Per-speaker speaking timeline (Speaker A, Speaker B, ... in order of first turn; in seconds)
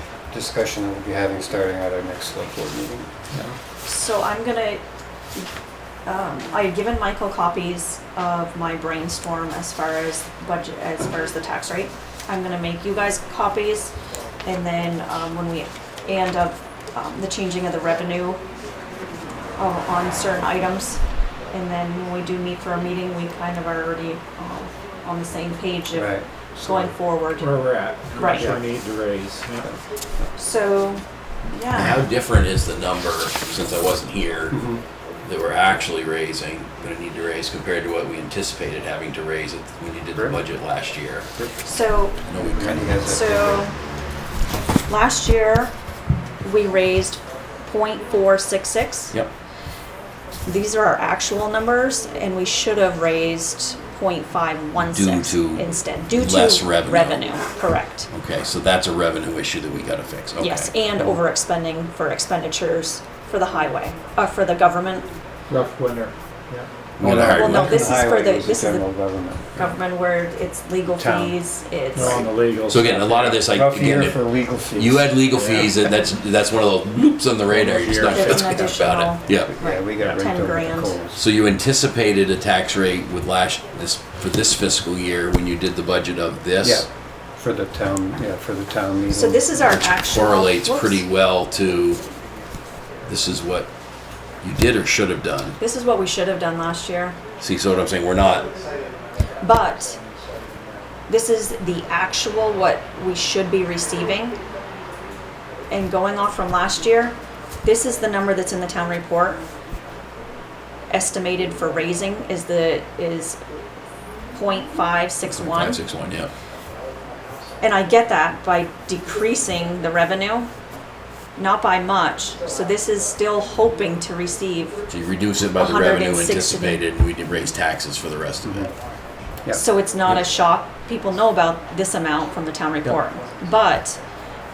Speaker A: 0.3-3.1, 25.9-26.9, 34.5-34.8, 42.3-43.7, 66.5-69.7, 71.0-71.3, 73.5-75.2, 79.4-81.2, 86.6-89.9, 128.4-128.7
Speaker B: 3.8-4.8, 6.0-13.9, 14.4-18.4, 19.6-27.6, 28.1-28.5, 30.4-32.0, 41.6-42.2, 43.0-43.8, 44.9-45.7, 46.4-49.1, 50.4-58.1, 60.4-65.1, 67.2-68.8, 69.5-72.3, 78.1-81.0, 89.1-91.0, 95.6-97.2, 99.4-100.0, 101.1-104.4, 105.7-109.4, 110.9-113.4, 114.3-115.8, 117.6-120.5, 121.3-124.8, 125.5-126.8, 129.5-134.0
Speaker C: 27.4-29.7, 65.5-66.1, 71.9-73.5, 75.3-75.7, 77.5-78.6
Speaker D: 31.7-34.6, 35.2-41.3, 42.3-43.0, 54.8-57.2, 58.1-60.7, 67.0-67.9, 72.7-79.5, 81.1-86.9, 89.8-92.0, 93.1-93.7, 94.4-95.6, 97.4-98.5, 115.4-116.3, 124.9-128.7